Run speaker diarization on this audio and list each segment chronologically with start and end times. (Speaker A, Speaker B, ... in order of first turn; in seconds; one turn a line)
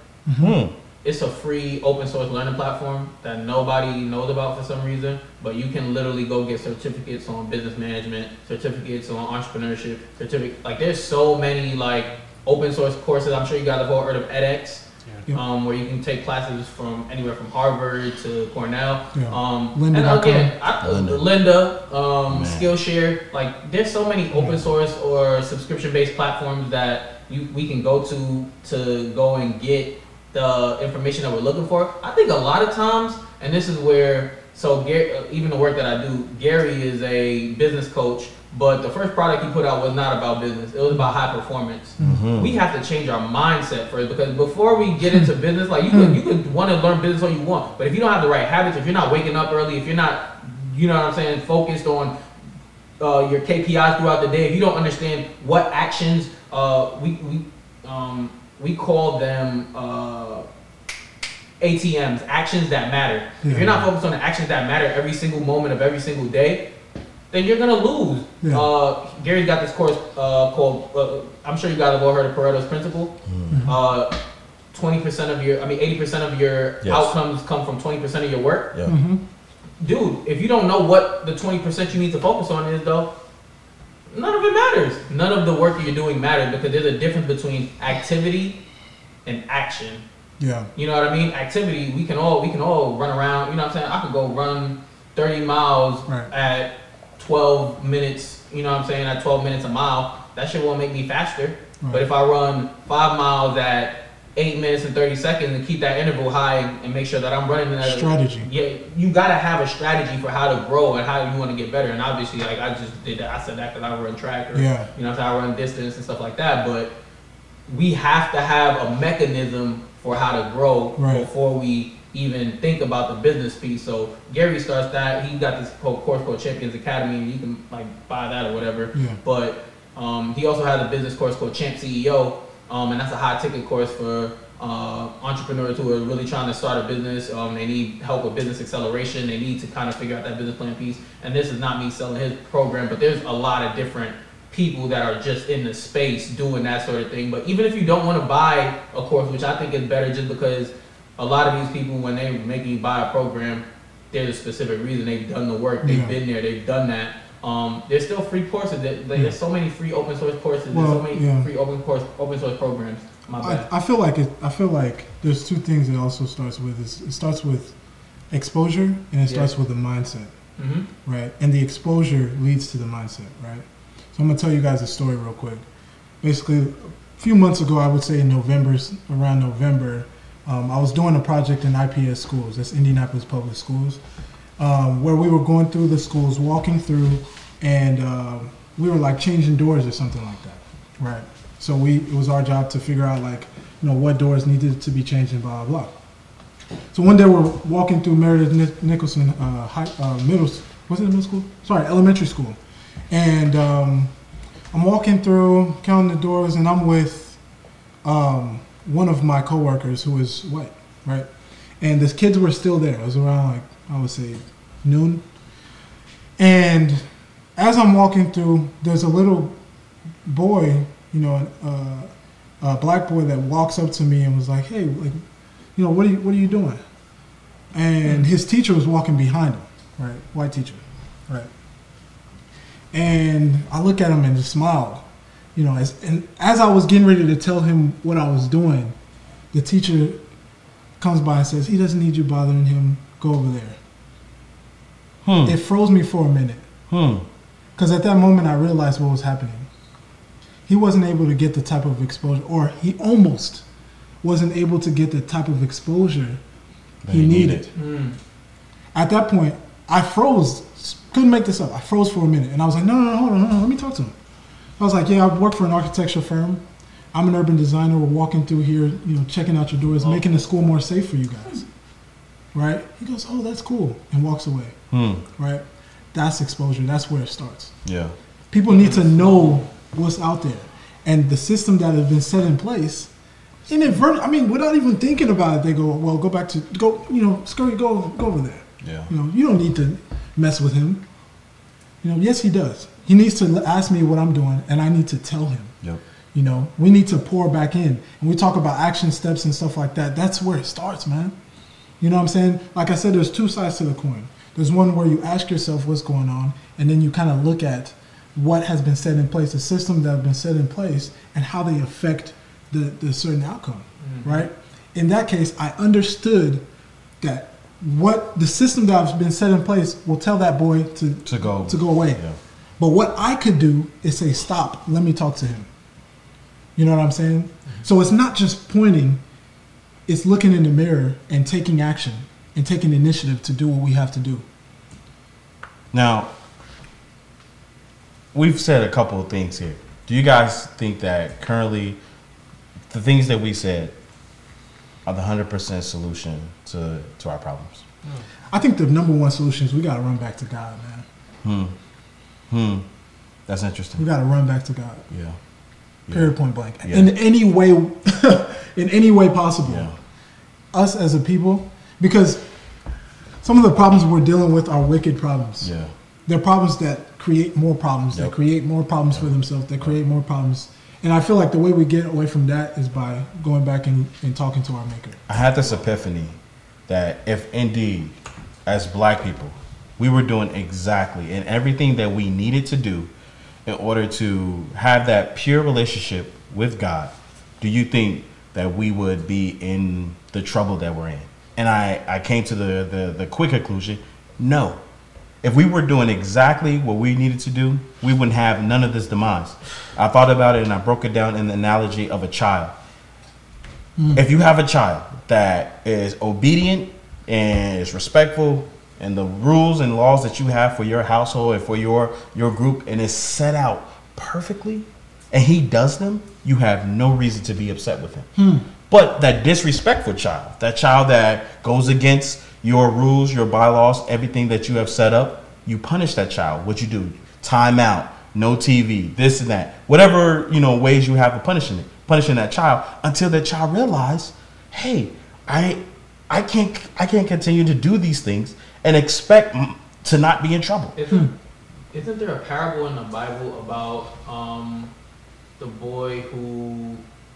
Speaker A: 0.2-0.6
Speaker B: 0.4-0.7
Speaker C: 1.0-52.1
Speaker A: 19.1-20.5
Speaker B: 20.8-21.2
Speaker B: 22.3-22.7
Speaker A: 24.3-24.6
Speaker B: 42.0-42.6
Speaker A: 45.9-46.2
Speaker C: 53.0-60.5
Speaker C: 61.6-66.7
Speaker A: 63.4-63.8
Speaker C: 67.3-74.1
Speaker A: 68.4-68.7
Speaker B: 73.3-73.6
Speaker A: 73.5-73.7
Speaker C: 74.7-78.7
Speaker B: 76.8-77.1
Speaker A: 78.9-79.2
Speaker C: 79.8-83.1
Speaker C: 84.1-88.6
Speaker C: 89.2-90.0
Speaker A: 90.4-90.7
Speaker C: 90.8-116.9
Speaker A: 107.8-108.5
Speaker A: 114.5-114.9
Speaker C: 117.7-163.7
Speaker A: 121.0-121.3
Speaker A: 155.8-156.1
Speaker A: 160.7-161.5
Speaker A: 163.4-167.7
Speaker A: 168.3-170.3
Speaker C: 170.6-170.9
Speaker A: 171.0-175.6
Speaker A: 176.2-184.0
Speaker A: 184.6-195.9
Speaker A: 196.9-202.6
Speaker A: 203.1-204.1
Speaker A: 204.7-207.4
Speaker A: 208.0-211.3
Speaker A: 211.8-215.2
Speaker A: 216.4-217.0
Speaker A: 217.6-219.6
Speaker A: 220.2-225.2
Speaker A: 225.8-226.8
Speaker A: 227.7-231.5
Speaker A: 232.9-238.9
Speaker A: 239.5-240.2
Speaker A: 241.0-243.8
Speaker B: 245.2-245.6
Speaker A: 245.4-246.6
Speaker B: 246.9-247.2
Speaker A: 247.8-249.7
Speaker A: 250.7-253.6
Speaker A: 254.2-256.4
Speaker B: 257.0-257.6
Speaker A: 257.1-257.7
Speaker C: 257.8-258.2
Speaker A: 258.9-264.1
Speaker A: 264.8-271.6
Speaker A: 272.5-274.8
Speaker B: 274.9-275.2
Speaker A: 275.4-277.7
Speaker B: 277.8-278.1
Speaker A: 278.5-283.1
Speaker C: 278.7-279.6
Speaker A: 283.6-291.0
Speaker B: 288.8-289.1
Speaker A: 292.0-295.7
Speaker A: 296.3-301.3
Speaker A: 302.0-316.6
Speaker C: 314.0-314.4
Speaker A: 317.2-322.2
Speaker B: 321.2-322.4
Speaker A: 322.8-325.7
Speaker A: 326.8-329.2
Speaker A: 330.1-334.4
Speaker B: 335.9-336.3
Speaker B: 338.3-342.0
Speaker B: 342.9-343.9
Speaker B: 345.0-347.8
Speaker A: 348.5-351.1
Speaker B: 351.4-351.8
Speaker B: 352.5-352.9
Speaker B: 353.5-354.0
Speaker A: 354.0-355.1
Speaker B: 355.1-355.4
Speaker B: 356.1-357.1
Speaker A: 356.1-359.9
Speaker B: 359.6-359.9
Speaker A: 360.7-362.5
Speaker A: 363.4-365.7
Speaker B: 365.6-365.9
Speaker A: 366.2-375.2
Speaker B: 375.3-383.1
Speaker B: 383.6-394.8
Speaker B: 395.4-402.7
Speaker A: 404.0-404.2
Speaker B: 404.1-418.3
Speaker A: 418.4-418.6
Speaker B: 418.9-440.9
Speaker C: 440.9-441.3
Speaker C: 441.9-444.9
Speaker C: 445.6-447.0